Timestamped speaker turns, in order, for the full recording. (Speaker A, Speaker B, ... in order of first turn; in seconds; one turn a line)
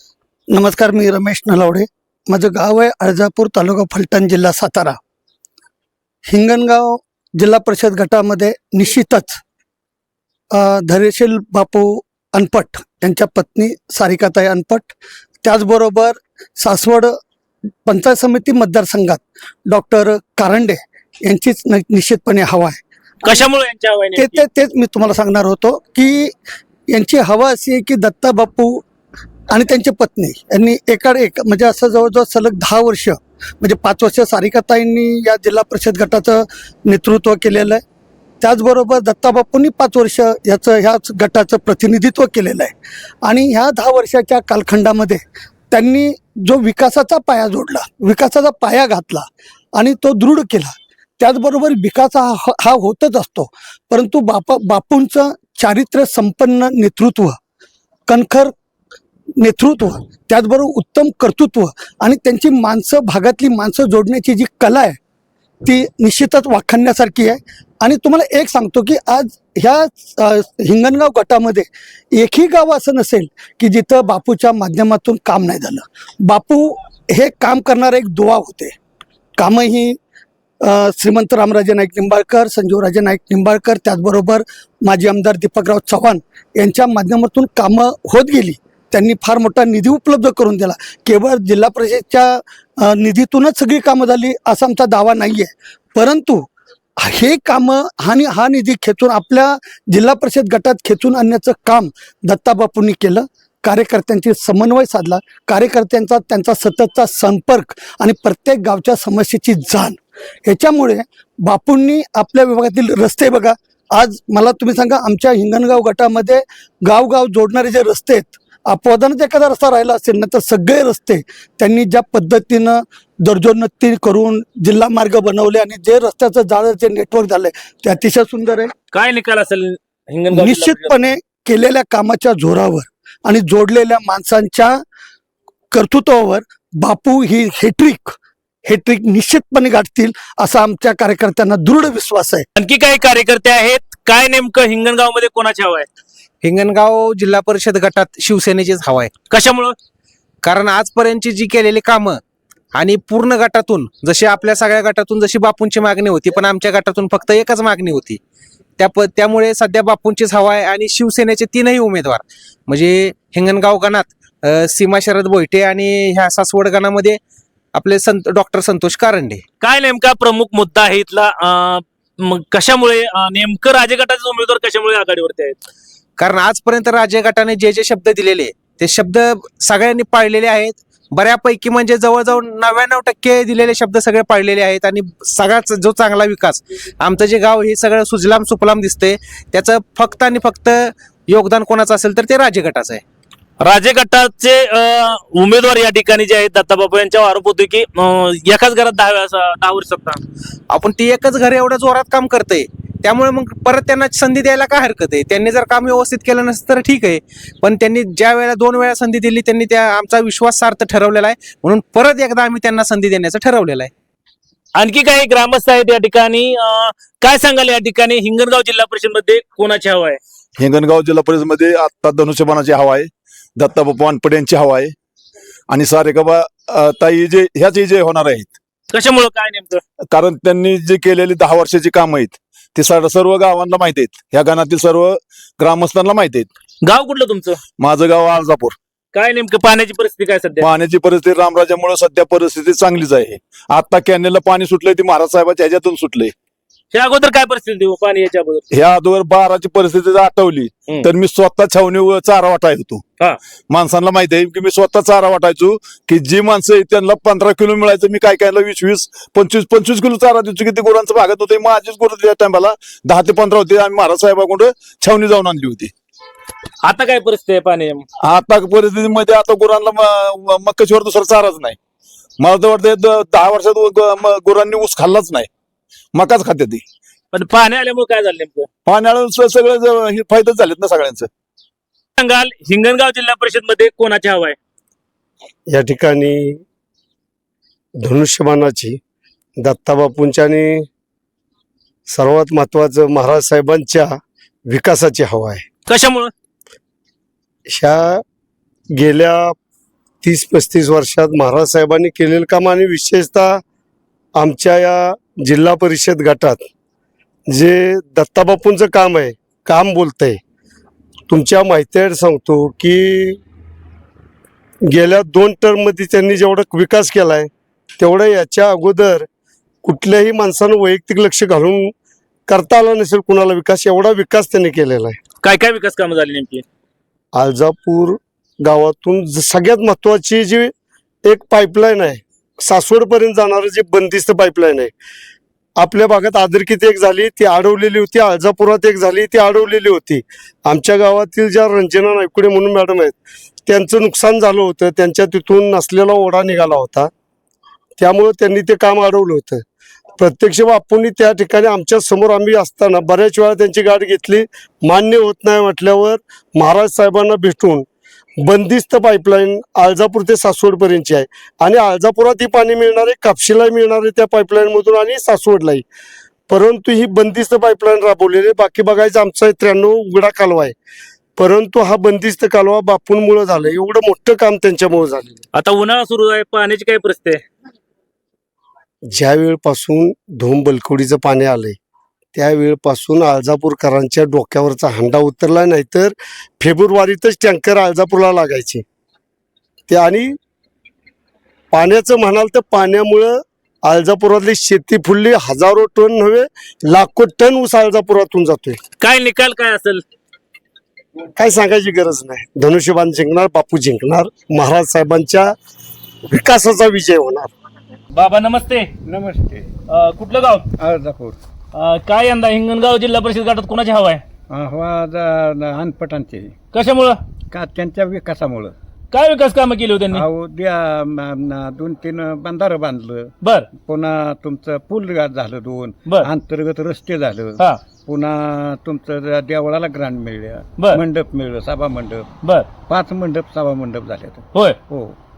Speaker A: 0.5-5.0
Speaker A: 6.3-9.4
Speaker A: 10.5-17.1
Speaker A: 17.9-23.5
Speaker B: 23.2-24.4
Speaker A: 24.1-26.3
Speaker A: 26.9-28.8
Speaker A: 29.5-37.8
Speaker A: 38.4-57.4
Speaker A: 58.1-58.5
Speaker A: 59.4-65.0
Speaker A: 65.6-78.8
Speaker A: 79.4-80.0
Speaker A: 80.6-96.5
Speaker A: 97.0-128.7
Speaker B: 128.9-131.0
Speaker A: 130.3-134.8
Speaker A: 135.7-142.5
Speaker B: 142.6-145.9
Speaker C: 146.4-149.2
Speaker B: 149.3-149.7
Speaker C: 150.4-152.2
Speaker C: 152.7-158.2
Speaker C: 158.8-167.2
Speaker C: 167.7-169.4
Speaker B: 169.6-175.6
Speaker C: 176.2-193.0
Speaker B: 193.6-200.2
Speaker C: 200.7-213.9
Speaker B: 214.8-220.2
Speaker D: 220.6-224.9
Speaker D: 225.7-228.6
Speaker B: 228.9-229.8
Speaker D: 230.1-236.5
Speaker B: 236.8-237.6
Speaker D: 237.8-238.8
Speaker B: 239.1-240.7
Speaker D: 240.6-246.3
Speaker B: 246.9-248.6
Speaker D: 248.7-253.0
Speaker D: 253.7-265.9
Speaker B: 266.8-268.1
Speaker D: 268.2-271.8
Speaker D: 272.4-275.5
Speaker D: 276.1-276.8
Speaker B: 277.3-278.7
Speaker D: 278.9-281.3
Speaker B: 282.2-284.6
Speaker E: 285.7-286.6
Speaker E: 288.0-289.0
Speaker E: 289.6-290.9
Speaker E: 292.1-294.1
Speaker E: 294.7-295.6
Speaker B: 295.9-296.3
Speaker E: 297.7-298.2
Speaker E: 298.9-299.6
Speaker E: 300.2-303.6
Speaker E: 304.4-306.6
Speaker E: 307.5-310.4
Speaker E: 311.3-313.4
Speaker E: 314.9-319.3
Speaker E: 319.8-321.9
Speaker E: 322.5-325.2
Speaker B: 325.4-326.6
Speaker E: 327.3-330.7
Speaker E: 331.2-334.9
Speaker E: 335.8-347.1
Speaker E: 348.0-349.6
Speaker E: 350.2-357.9
Speaker E: 358.4-365.8
Speaker E: 366.5-370.8
Speaker E: 371.4-375.4
Speaker B: 375.5-377.4
Speaker E: 379.1-381.8
Speaker E: 382.4-388.8
Speaker E: 389.9-390.4
Speaker E: 391.7-398.8
Speaker B: 399.0-400.0
Speaker E: 401.4-405.5
Speaker E: 406.3-407.5
Speaker B: 408.1-408.9
Speaker F: 409.1-409.7
Speaker B: 409.9-410.7
Speaker F: 410.8-411.4
Speaker B: 411.7-414.2
Speaker F: 414.5-416.6
Speaker B: 416.7-417.2
Speaker F: 417.5-418.8
Speaker B: 419.1-420.2
Speaker F: 420.1-432.3
Speaker B: 423.4-423.7
Speaker B: 432.4-432.7
Speaker F: 432.9-435.2